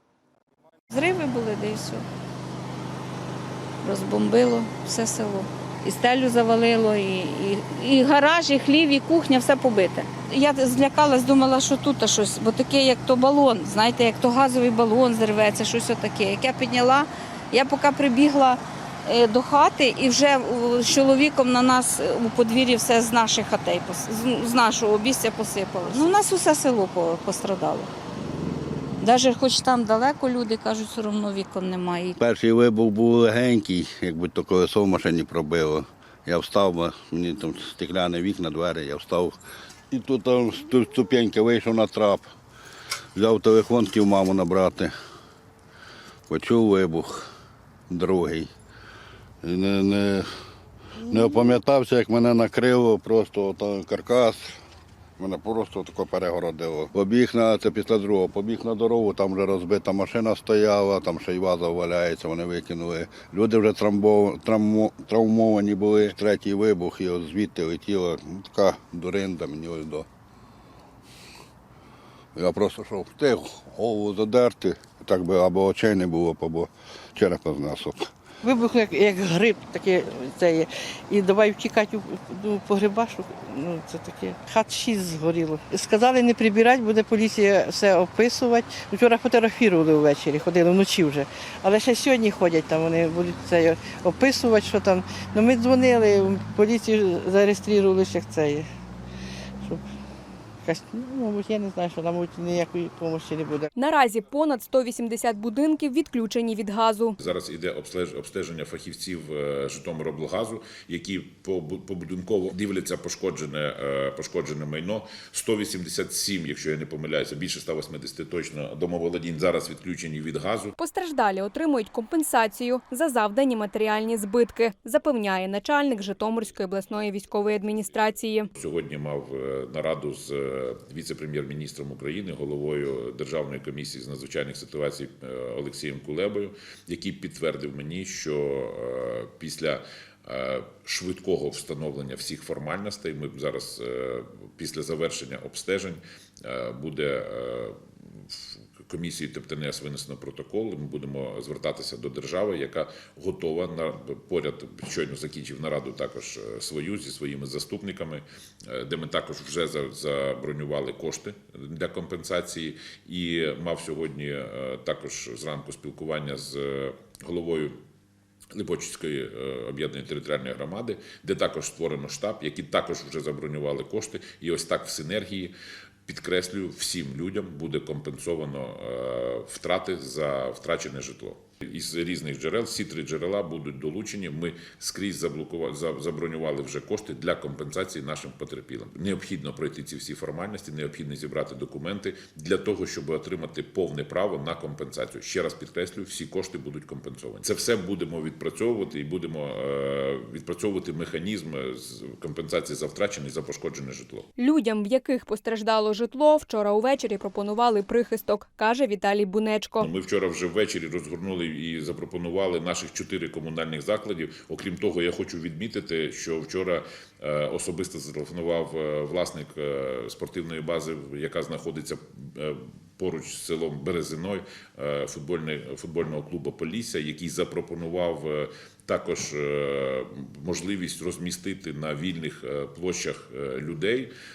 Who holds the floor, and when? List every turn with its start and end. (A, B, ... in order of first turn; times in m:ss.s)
0:00.9-0:02.0 A
0:03.8-0:27.9 A
0:29.0-0:32.2 A
0:32.2-0:39.4 B
0:39.9-0:42.3 B
0:43.2-0:44.9 B
0:46.3-0:47.3 B
0:47.9-0:48.5 B
0:49.4-0:50.3 B
0:51.0-0:54.6 B
0:55.2-1:10.1 B
1:12.4-1:18.1 B
1:18.4-1:38.7 C
1:40.6-1:43.7 C
1:43.8-1:47.2 D
1:47.2-2:00.7 E
2:00.8-2:08.5 D
2:08.6-2:47.8 E
2:48.5-2:55.5 E
2:56.1-3:24.3 E
3:24.4-3:29.9 D
3:29.8-3:54.1 E